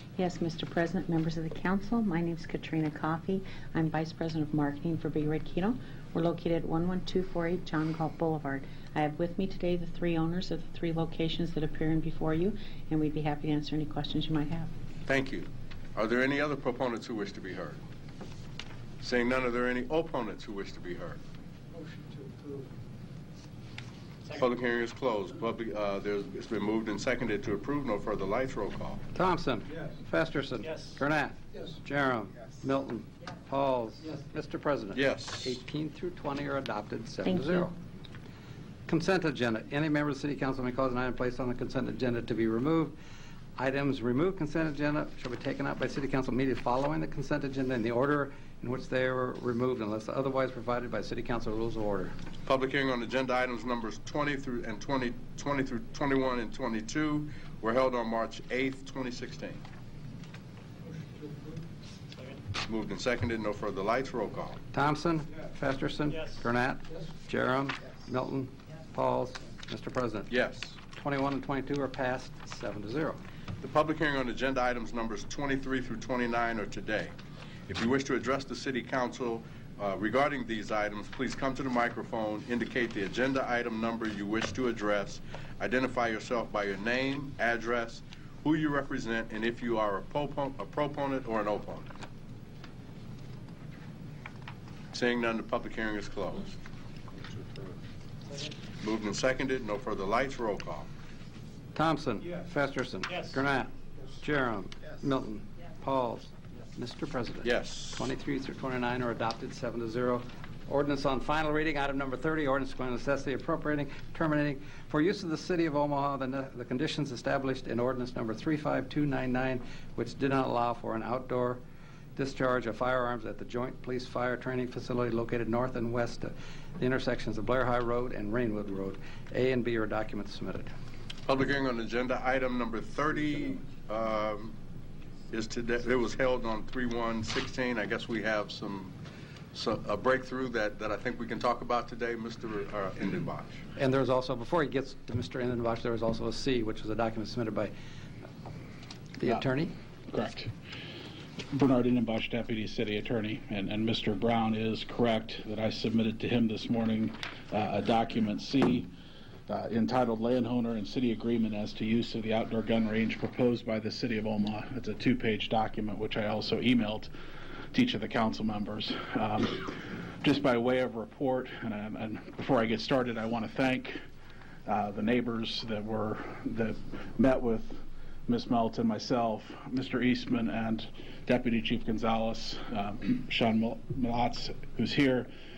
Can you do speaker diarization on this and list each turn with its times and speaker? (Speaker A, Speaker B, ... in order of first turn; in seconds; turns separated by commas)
Speaker A: 0.2-14.7, Speaker B: 15.1-17.8, Speaker B: 19.0-21.2, Speaker B: 24.3-29.0, Speaker C: 29.1-37.8, Speaker B: 34.9-35.6, Speaker A: 37.2-37.7, Speaker C: 38.9-43.0, Speaker C: 43.6-52.1, Speaker B: 52.5-59.6, Speaker B: 62.6-64.6, Speaker C: 64.7-73.2, Speaker B: 70.3-70.8, Speaker B: 73.6-77.1, Speaker B: 77.7-91.9, Speaker B: 94.9-96.6, Speaker B: 98.8-100.9, Speaker C: 101.8-121.6, Speaker B: 107.4-108.0, Speaker C: 122.2-130.7, Speaker B: 131.3-134.6, Speaker B: 135.3-138.9, Speaker B: 139.5-143.6, Speaker C: 143.8-147.7, Speaker C: 149.2-149.7, Speaker D: 150.1-150.5, Speaker D: 151.5-158.9, Speaker D: 159.5-167.1, Speaker D: 167.7-174.0, Speaker D: 174.7-185.3